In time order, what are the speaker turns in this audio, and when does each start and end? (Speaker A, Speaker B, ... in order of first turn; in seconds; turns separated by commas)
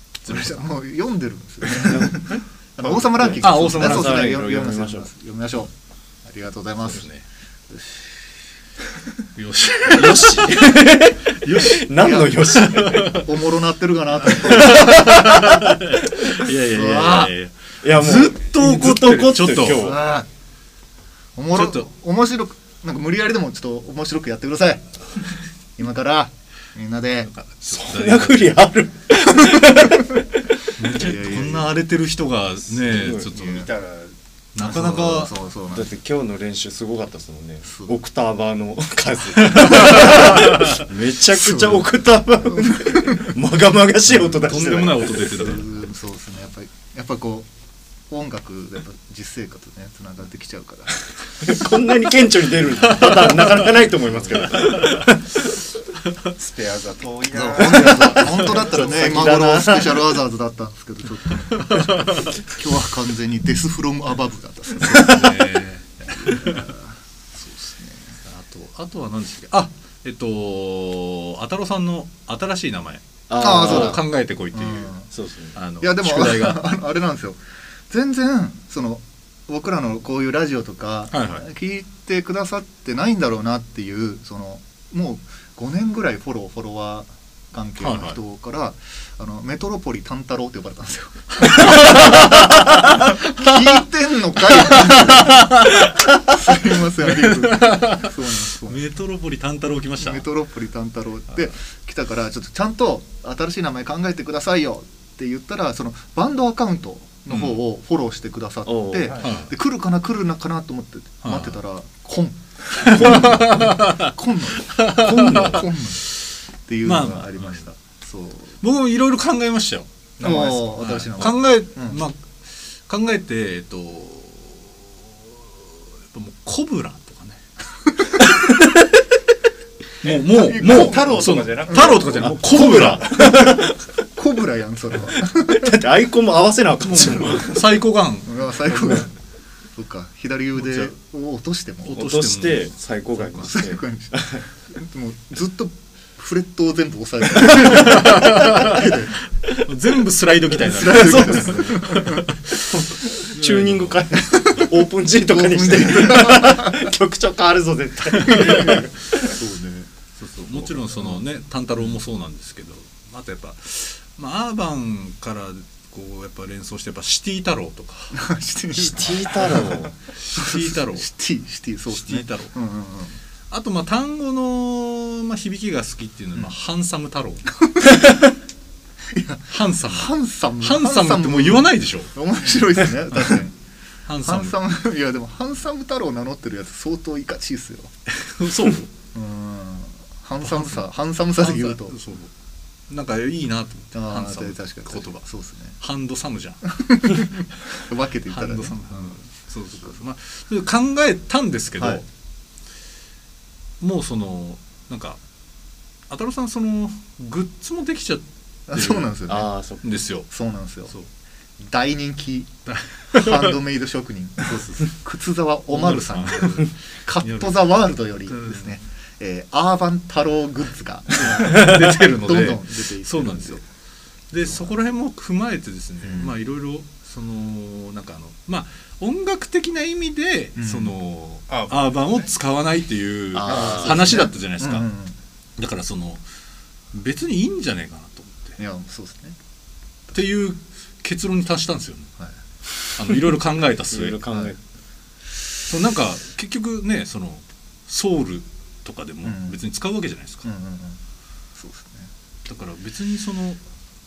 Speaker A: 0.2-0.7, Speaker B: 0.2-5.7, Speaker C: 1.7-2.4, Speaker D: 2.8-3.4, Speaker C: 3.0-5.1, Speaker A: 3.4-4.4, Speaker B: 6.2-7.0, Speaker A: 6.8-7.2, Speaker B: 7.7-8.2, Speaker A: 9.3-10.8, Speaker C: 9.9-13.1, Speaker A: 11.4-13.2, Speaker B: 11.9-15.5, Speaker A: 14.3-19.9, Speaker C: 14.8-15.4, Speaker B: 16.6-17.3, Speaker C: 17.8-20.0, Speaker B: 19.7-20.3, Speaker B: 21.3-24.8, Speaker A: 21.5-21.9, Speaker B: 25.8-27.3, Speaker A: 27.2-28.6, Speaker C: 27.7-30.2, Speaker A: 30.7-33.7, Speaker B: 30.9-31.8, Speaker C: 32.8-33.3, Speaker D: 33.3-34.1, Speaker B: 33.3-33.6, Speaker A: 34.5-35.3, Speaker B: 34.6-35.9, Speaker C: 35.7-45.2, Speaker B: 37.7-37.9, Speaker A: 39.4-40.8, Speaker B: 41.3-41.9, Speaker B: 42.4-43.3, Speaker A: 44.2-45.9, Speaker B: 45.2-47.5, Speaker B: 48.1-51.6, Speaker C: 51.4-55.4, Speaker A: 52.9-53.7, Speaker A: 54.6-55.1, Speaker D: 56.3-59.5, Speaker B: 57.3-65.3, Speaker C: 57.7-60.1, Speaker A: 61.5-62.3, Speaker A: 64.8-66.7, Speaker B: 66.1-68.2, Speaker A: 68.2-74.9, Speaker C: 73.3-74.0, Speaker B: 73.4-75.1, Speaker C: 75.1-75.5, Speaker A: 75.5-76.7, Speaker B: 75.8-98.8, Speaker A: 81.1-81.5, Speaker A: 87.8-88.2, Speaker A: 91.4-93.6, Speaker A: 94.5-96.0, Speaker A: 97.0-100.2, Speaker B: 100.0-116.0, Speaker A: 107.3-107.6, Speaker C: 108.7-109.2, Speaker D: 109.0-109.3, Speaker A: 109.2-109.5, Speaker A: 111.2-111.6, Speaker A: 112.8-114.1, Speaker A: 114.6-115.7, Speaker C: 115.1-115.6, Speaker B: 116.7-118.6, Speaker A: 116.8-117.6, Speaker A: 118.6-127.4, Speaker D: 120.2-121.2, Speaker B: 120.2-122.0, Speaker A: 130.0-133.3, Speaker D: 130.0-132.9, Speaker B: 130.3-131.1, Speaker B: 131.7-132.0, Speaker C: 132.1-133.8, Speaker B: 132.6-133.6, Speaker B: 134.2-135.8, Speaker C: 135.3-137.7, Speaker A: 136.8-139.0, Speaker B: 138.2-139.1, Speaker B: 139.7-142.0, Speaker A: 140.6-140.9, Speaker A: 141.8-143.6, Speaker C: 141.9-144.4, Speaker B: 143.4-144.1, Speaker B: 144.7-149.1, Speaker A: 147.4-149.0, Speaker A: 149.6-154.6, Speaker B: 150.6-152.3, Speaker C: 150.9-151.6, Speaker C: 152.7-159.3, Speaker B: 155.2-156.9, Speaker B: 158.2-159.9, Speaker A: 160.2-168.2, Speaker B: 160.9-161.2, Speaker B: 168.1-173.2, Speaker C: 168.7-169.9, Speaker A: 170.2-171.1, Speaker A: 171.9-172.5, Speaker A: 173.5-177.6, Speaker B: 177.8-178.2, Speaker B: 179.1-183.6, Speaker A: 179.5-182.1, Speaker A: 184.1-184.6, Speaker B: 184.2-187.9, Speaker A: 188.1-188.9, Speaker B: 189.1-191.9, Speaker A: 190.4-190.8, Speaker A: 191.4-192.3, Speaker A: 192.9-195.2, Speaker B: 193.9-195.8, Speaker A: 195.8-196.7, Speaker B: 196.7-199.2, Speaker A: 198.3-202.1, Speaker B: 201.8-202.0, Speaker A: 203.8-205.2, Speaker A: 206.1-209.1, Speaker B: 208.7-209.5, Speaker C: 209.3-209.9, Speaker A: 209.8-210.3, Speaker B: 210.3-210.9, Speaker B: 211.6-212.5, Speaker A: 212.7-213.5, Speaker B: 213.1-223.6, Speaker A: 214.4-214.9, Speaker A: 215.7-217.5, Speaker A: 218.3-218.7, Speaker A: 221.1-223.6, Speaker A: 224.3-234.9, Speaker B: 224.4-224.7, Speaker B: 226.0-226.3, Speaker B: 230.6-230.9, Speaker D: 231.5-232.3, Speaker C: 233.3-234.3, Speaker B: 233.4-235.2, Speaker A: 235.6-236.2, Speaker A: 236.9-238.6, Speaker B: 238.6-239.4, Speaker A: 240.1-242.1, Speaker A: 242.9-244.2, Speaker C: 243.9-244.6, Speaker A: 245.7-250.5, Speaker B: 249.2-249.6, Speaker B: 250.4-251.0, Speaker B: 251.5-252.1, Speaker A: 252.4-253.6